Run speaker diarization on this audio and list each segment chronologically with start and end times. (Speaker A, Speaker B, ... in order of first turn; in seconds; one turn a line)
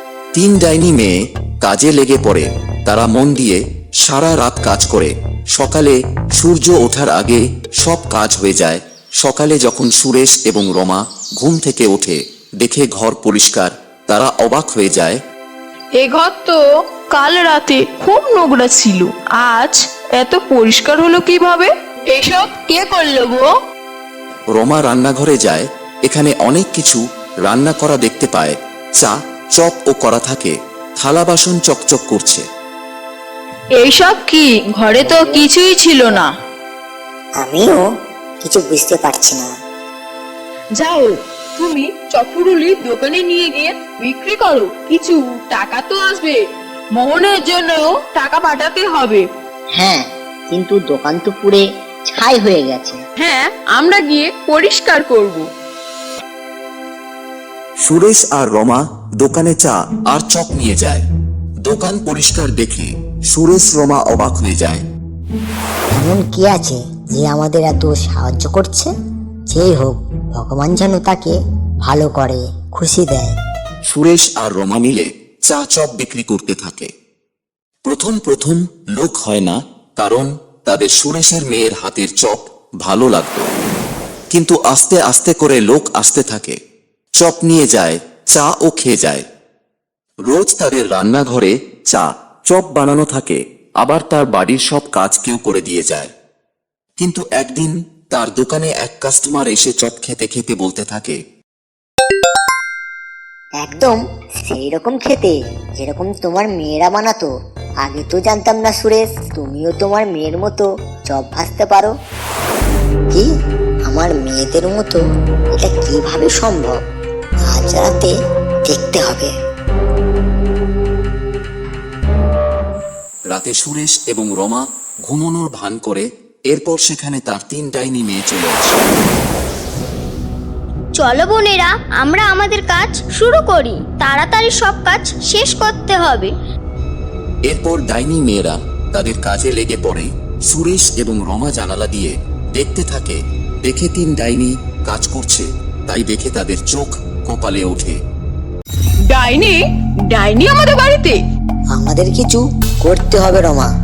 Speaker A: 0.3-15.2
Speaker B: 16.0-23.5
Speaker A: 24.5-32.5
Speaker B: 33.8-36.3
Speaker C: 37.4-37.9
Speaker C: 38.4-39.5
Speaker B: 40.8-49.3
Speaker C: 49.8-53.0
Speaker B: 53.2-55.5
Speaker A: 57.9-61.0
Speaker A: 61.6-64.8
Speaker C: 66.0-68.9
Speaker C: 69.5-73.4
Speaker A: 73.9-76.9
Speaker A: 77.8-83.5
Speaker A: 84.3-86.6
Speaker A: 87.2-89.2
Speaker A: 90.3-96.1
Speaker A: 97.0-101.2
Speaker C: 103.6-107.3
Speaker C: 107.8-111.9
Speaker C: 113.9-115.0
Speaker C: 115.6-116.8
Speaker C: 117.5-118.1
Speaker C: 118.7-119.3
Speaker A: 123.3-128.8
Speaker D: 131.0-136.3
Speaker A: 137.5-148.0
Speaker B: 149.1-151.2
Speaker C: 151.7-153.7